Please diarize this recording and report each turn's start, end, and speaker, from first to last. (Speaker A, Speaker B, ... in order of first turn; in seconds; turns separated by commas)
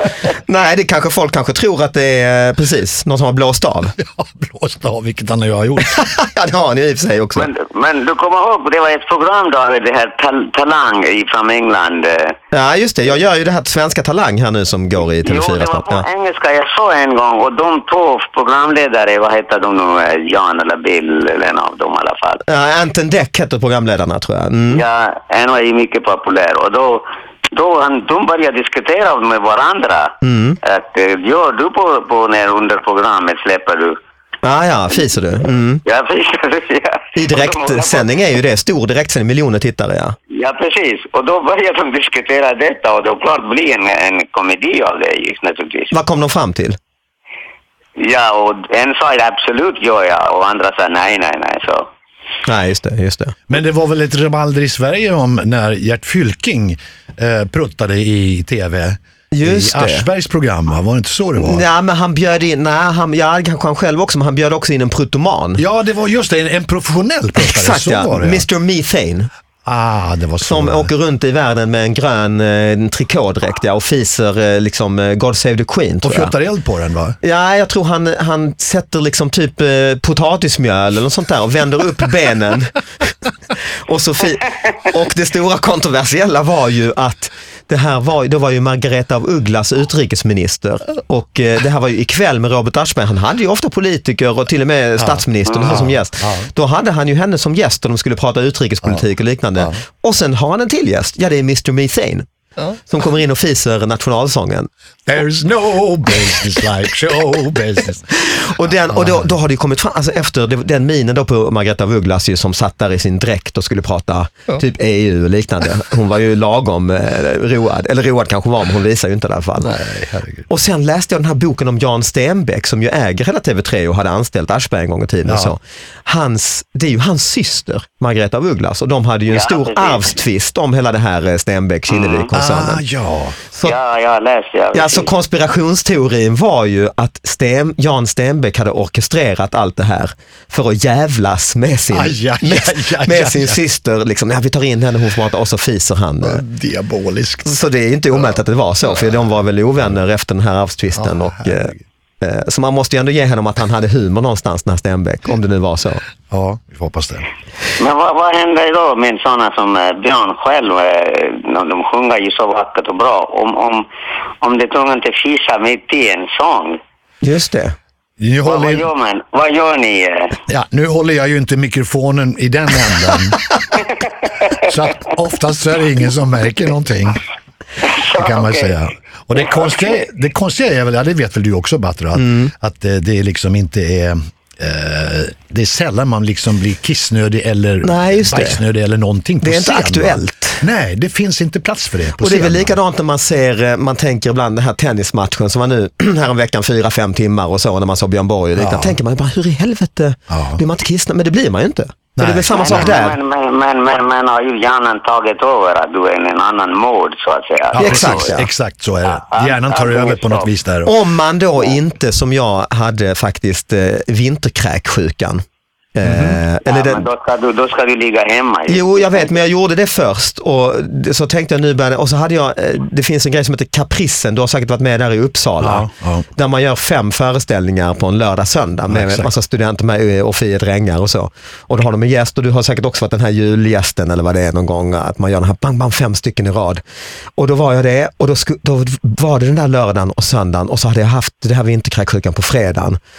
Speaker A: 0.3-4.0, Speaker B: 4.0-6.1, Speaker A: 5.9-7.5, Speaker C: 7.3-12.4, Speaker A: 12.5-16.1, Speaker C: 15.2-22.4, Speaker A: 22.5-24.8, Speaker C: 24.7-34.0, Speaker A: 30.2-30.6, Speaker A: 34.4-35.8, Speaker C: 35.8-38.1, Speaker A: 37.2-40.2, Speaker C: 40.3-46.0, Speaker A: 45.9-46.8, Speaker C: 48.0-51.9, Speaker A: 52.5-53.4, Speaker B: 53.5-61.6, Speaker A: 59.3-60.1, Speaker A: 61.4-65.6, Speaker B: 65.6-68.5, Speaker A: 67.4-69.3, Speaker B: 69.7-70.9, Speaker A: 70.4-76.3, Speaker B: 76.0-77.2, Speaker A: 77.2-83.1, Speaker A: 83.9-102.3, Speaker B: 95.0-96.5, Speaker C: 95.5-95.8, Speaker A: 102.8-104.7, Speaker B: 105.1-109.3, Speaker A: 108.3-119.7, Speaker B: 119.6-120.5, Speaker A: 120.5-132.8, Speaker B: 125.2-125.5, Speaker C: 129.3-130.1, Speaker C: 131.9-132.3, Speaker B: 132.3-133.4, Speaker A: 133.5-133.8, Speaker C: 133.6-135.1, Speaker A: 134.7-146.4, Speaker B: 141.9-143.6, Speaker B: 146.2-147.5, Speaker A: 147.4-156.0, Speaker B: 151.0-151.8, Speaker B: 156.3-157.3, Speaker C: 157.8-163.9, Speaker C: 164.4-166.8, Speaker A: 167.2-167.8, Speaker B: 168.2-168.9, Speaker C: 168.4-170.4, Speaker B: 170.5-173.4, Speaker B: 174.6-177.2, Speaker C: 177.8-178.7, Speaker B: 178.2-192.8, Speaker A: 182.2-182.5, Speaker A: 187.8-188.6, Speaker A: 189.4-190.6, Speaker A: 192.2-203.2, Speaker B: 198.6-199.0, Speaker B: 200.3-200.6, Speaker B: 202.2-202.9, Speaker C: 202.5-208.4, Speaker B: 207.7-210.9, Speaker A: 207.8-208.4, Speaker C: 209.1-210.5, Speaker A: 210.9-215.4, Speaker A: 215.9-217.1, Speaker B: 216.0-216.4, Speaker C: 216.7-219.4, Speaker A: 218.7-236.8, Speaker B: 225.6-226.3, Speaker B: 228.9-229.3, Speaker A: 237.4-243.0